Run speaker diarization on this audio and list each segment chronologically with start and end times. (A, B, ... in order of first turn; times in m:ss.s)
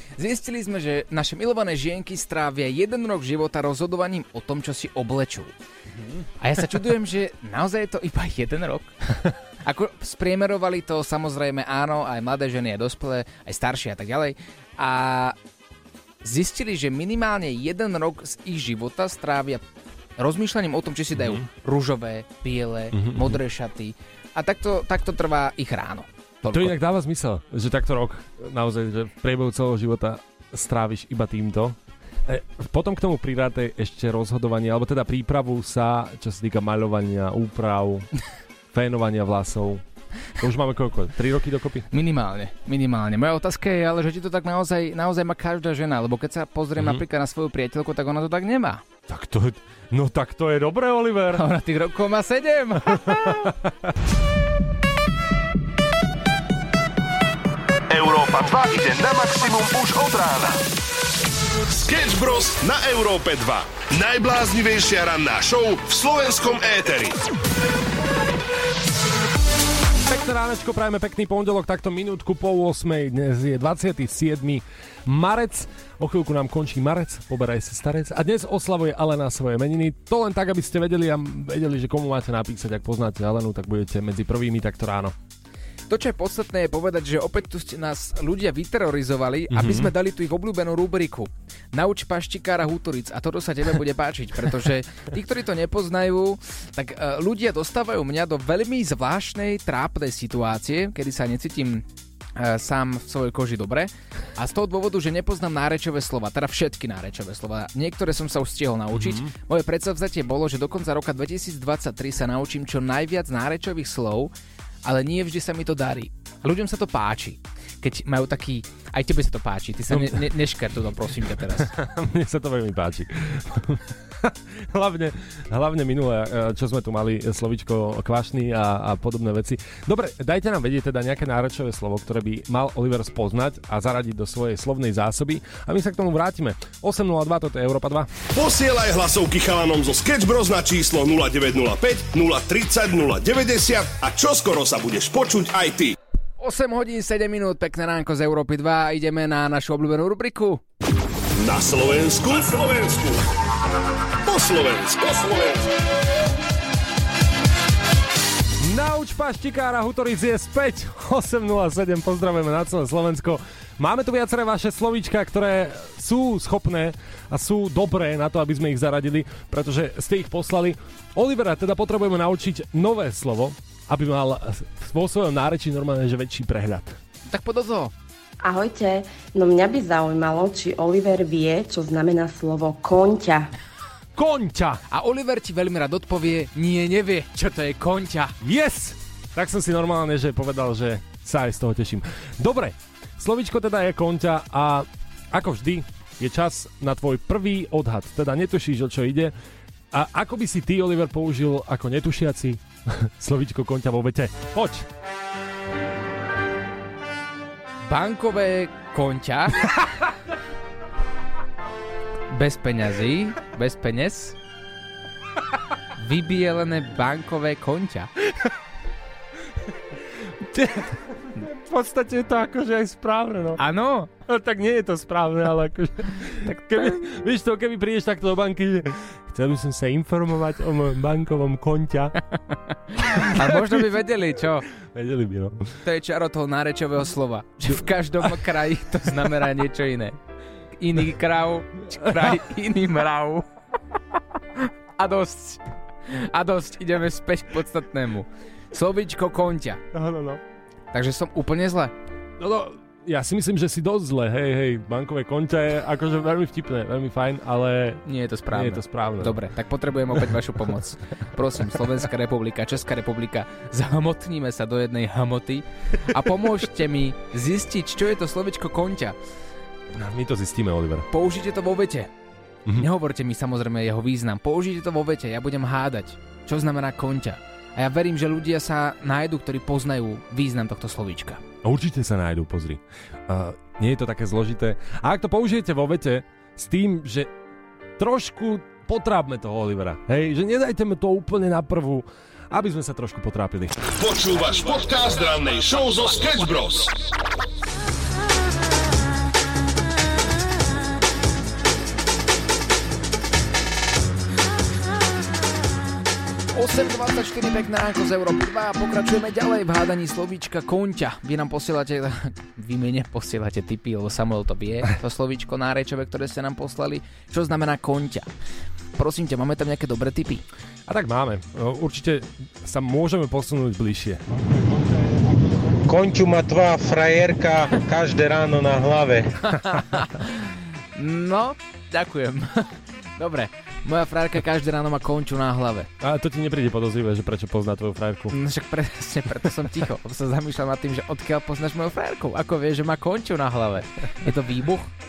0:00.2-0:05.5 A
0:06.4-0:15.4 A
0:16.2-0:19.6 A
0:20.2-0:26.8 A
0:21.2-0:21.4 B
0:22.9-0:23.4 B
0:26.5-0:38.1 B
0:38.7-0:39.8 B
0:40.4-0:41.9 B
0:41.9-0:48.8 A
0:46.8-0:47.0 B
0:49.1-0:51.4 B
0:51.4-0:53.5 A
0:57.9-1:00.6 C
1:01.7-1:07.2 C
1:10.1-1:25.2 B
1:25.9-1:41.8 A
1:29.5-1:29.9 B
1:42.4-1:54.3 A
1:48.9-1:49.3 B
1:54.8-2:01.7 A
1:59.9-2:00.3 B
2:01.6-2:18.1 B
2:18.3-2:26.0 C
2:26.4-2:30.6 A
2:31.4-2:33.2 C
2:34.2-2:35.6 C
2:38.6-2:57.0 B
2:57.3-2:57.9 A
2:58.4-3:03.5 D
3:04.2-3:04.8 B
3:04.9-3:08.4 A
3:08.4-3:19.3 B
3:19.9-3:24.9 B
3:27.9-3:29.7 A
3:32.3-3:34.4 A
3:36.0-3:38.1 A
3:40.5-3:43.6 B
3:43.6-3:44.1 A
3:44.3-3:52.2 B
3:46.5-3:47.0 A
3:53.0-3:54.7 A
3:53.2-3:53.9 B
3:54.8-3:55.7 B
3:55.8-4:00.2 A
4:00.8-4:03.5 A
4:04.6-4:09.8 A
4:09.9-4:10.4 B
4:10.9-4:11.9 A
4:12.4-4:19.4 B
4:18.1-4:29.2 A
4:30.0-4:31.1 B
4:31.1-4:32.1 A
4:32.7-4:41.4 A
4:41.6-4:47.3 B
4:48.0-4:53.8 B
4:53.9-4:57.0 C
5:06.6-5:18.3 A
5:19.0-5:20.4 A
5:20.9-5:24.2 B
5:25.8-5:29.4 E
5:29.4-5:35.9 A
5:36.0-5:38.4 B
5:38.3-5:44.9 A